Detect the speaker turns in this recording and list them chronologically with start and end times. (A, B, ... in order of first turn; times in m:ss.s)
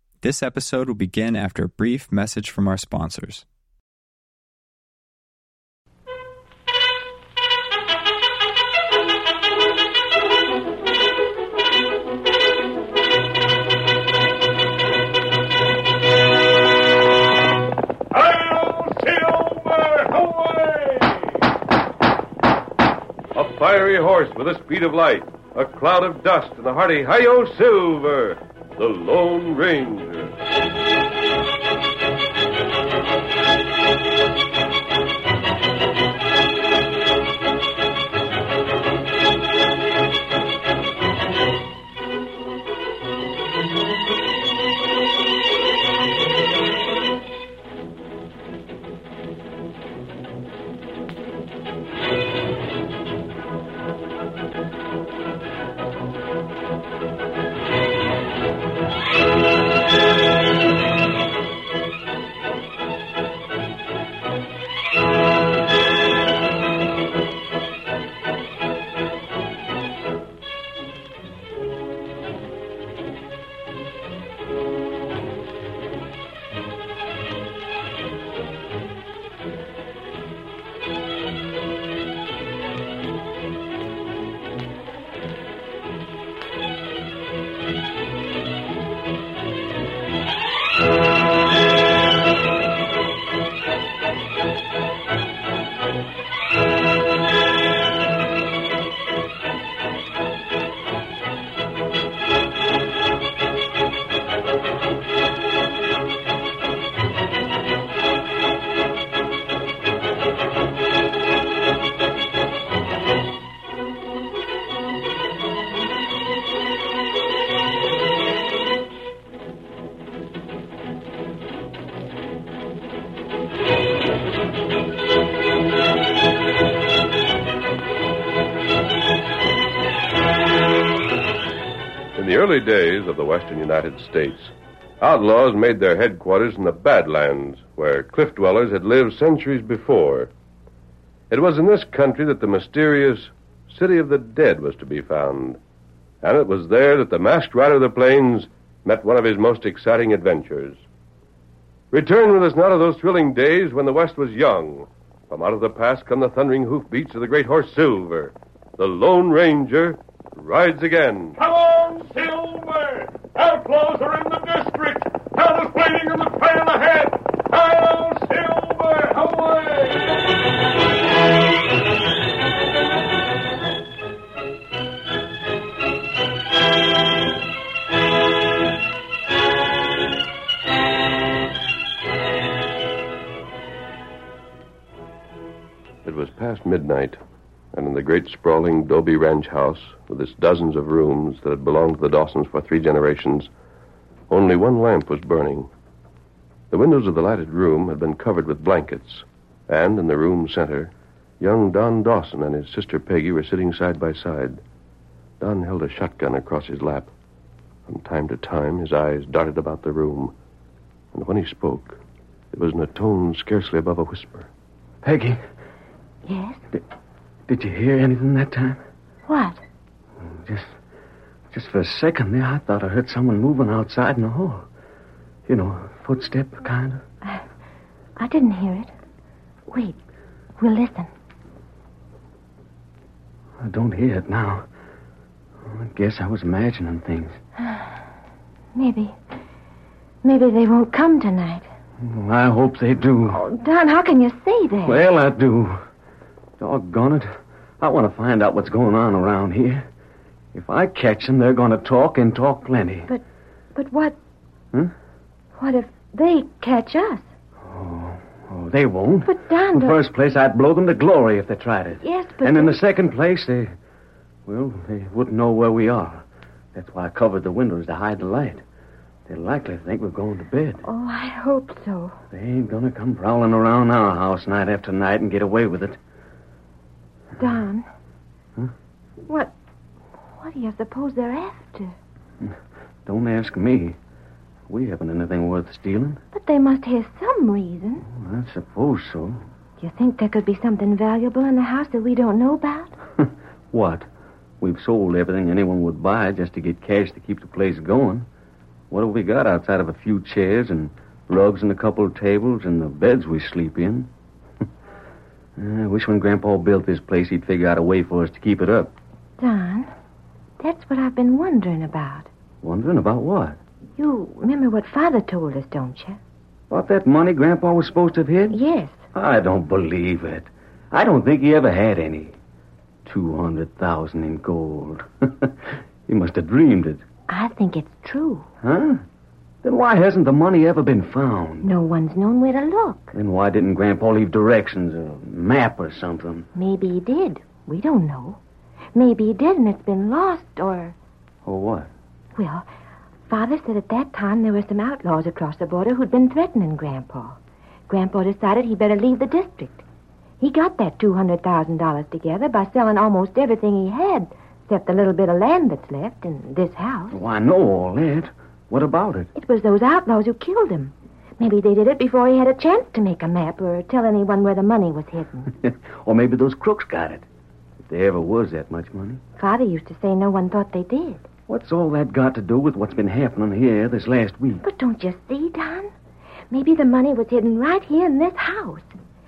0:00.2-0:03.4 A
0:18.1-0:21.3 B
0:18.4-0:18.6 C
0:19.1-0:20.6 C
0:23.4-0:30.4 C
2:12.2-2:20.3 C
2:21.3-2:25.6 C
2:26.2-2:30.8 C
2:31.9-2:41.4 C
2:41.4-2:50.1 B
3:06.0-3:07.2 C
3:07.7-3:13.5 C
3:14.3-3:15.7 C
3:16.7-3:24.6 C
3:25.4-3:27.1 C
3:27.9-3:30.3 C
3:31.1-3:32.0 C
3:32.5-3:34.5 C
3:35.0-3:35.4 D
3:36.2-3:36.6 E
3:37.5-3:38.8 D
3:39.3-3:39.6 E
3:40.2-3:40.7 D
3:41.5-3:44.7 D
3:45.5-3:47.0 D
3:48.2-3:48.9 E
3:49.7-3:50.0 E
3:50.6-3:51.1 E
3:53.6-3:54.6 D
3:55.6-3:57.4 D
3:58.8-3:59.1 E
4:00.2-4:01.7 E
4:02.0-4:03.4 D
4:03.3-4:05.0 E
4:04.8-4:05.8 D
4:06.6-4:07.3 D
4:07.8-4:09.9 D
4:10.5-4:13.1 D
4:13.8-4:14.2 E
4:15.6-4:17.2 E
4:17.6-4:23.7 D
4:19.3-4:20.0 E
4:22.0-4:22.8 E
4:24.5-4:28.6 D
4:29.3-4:30.8 D
4:30.8-4:32.2 E
4:32.3-4:36.0 D
4:37.4-4:37.9 E
4:39.3-4:39.5 E
4:40.4-4:42.0 E
4:43.1-4:44.0 D
4:44.7-4:46.2 D
4:46.3-4:48.1 E
4:48.1-4:49.4 D
4:49.8-4:53.0 E
4:53.2-4:54.1 D
4:54.6-4:58.3 D
4:58.9-5:04.1 D
5:05.6-5:08.9 D
5:09.4-5:09.9 E
5:10.6-5:12.3 E
5:12.6-5:13.6 D
5:14.0-5:16.2 E
5:16.7-5:18.6 D
5:18.5-5:19.0 E
5:19.1-5:22.4 D
5:23.0-5:27.0 D
5:27.3-5:28.5 E
5:28.6-5:29.0 D
5:29.6-5:31.7 D
5:31.6-5:33.2 E
5:33.1-5:36.5 D
5:36.6-5:38.4 E
5:39.0-5:41.0 E
5:41.4-5:41.9 D
5:42.4-5:42.7 E
5:43.3-5:49.8 E
5:50.4-5:57.2 E
5:57.1-5:59.3 D
5:59.4-6:05.5 E
6:05.6-6:07.2 D
6:07.8-6:09.2 D
6:09.4-6:11.2 E
6:11.5-6:14.6 D
6:14.6-6:15.9 E
6:16.5-6:18.9 E